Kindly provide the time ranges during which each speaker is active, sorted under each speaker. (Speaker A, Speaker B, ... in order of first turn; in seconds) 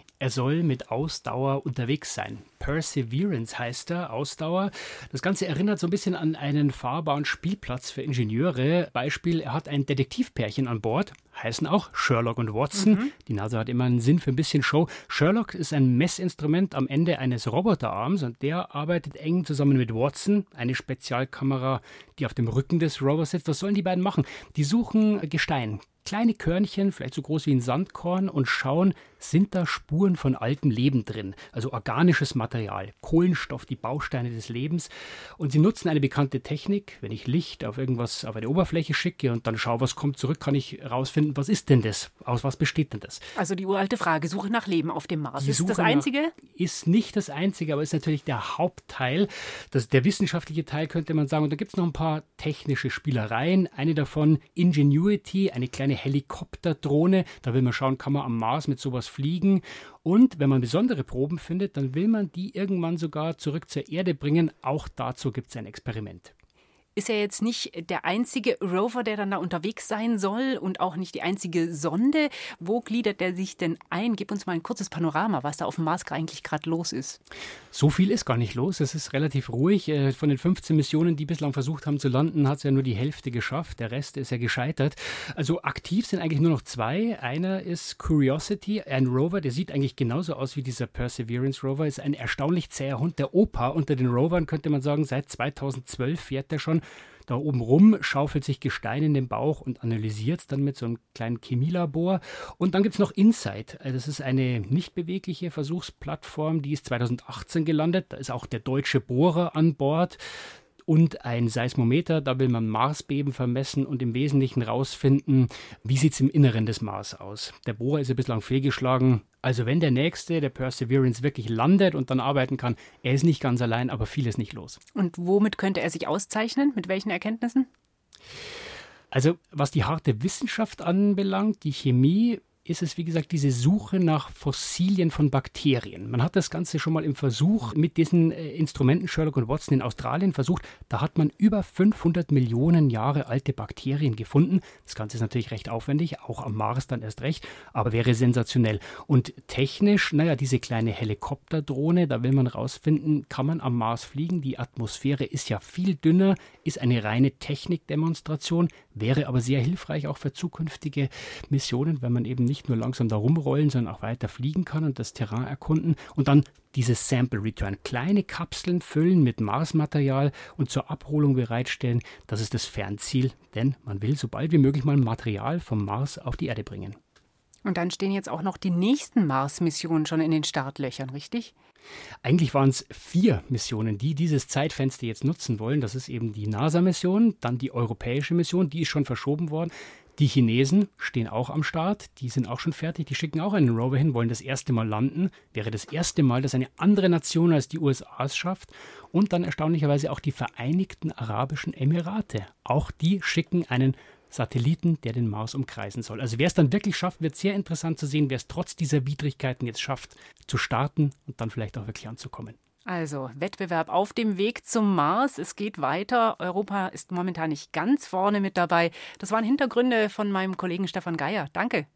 Speaker A: 0.2-43.3, 45.4-66.3, 77.7-110.2, 110.8-124.8, 129.1-177.0, 182.2-212.6
Speaker B: 12.7-13.1, 43.4-46.3, 67.0-77.2, 124.9-127.7, 177.6-181.5, 212.8-221.9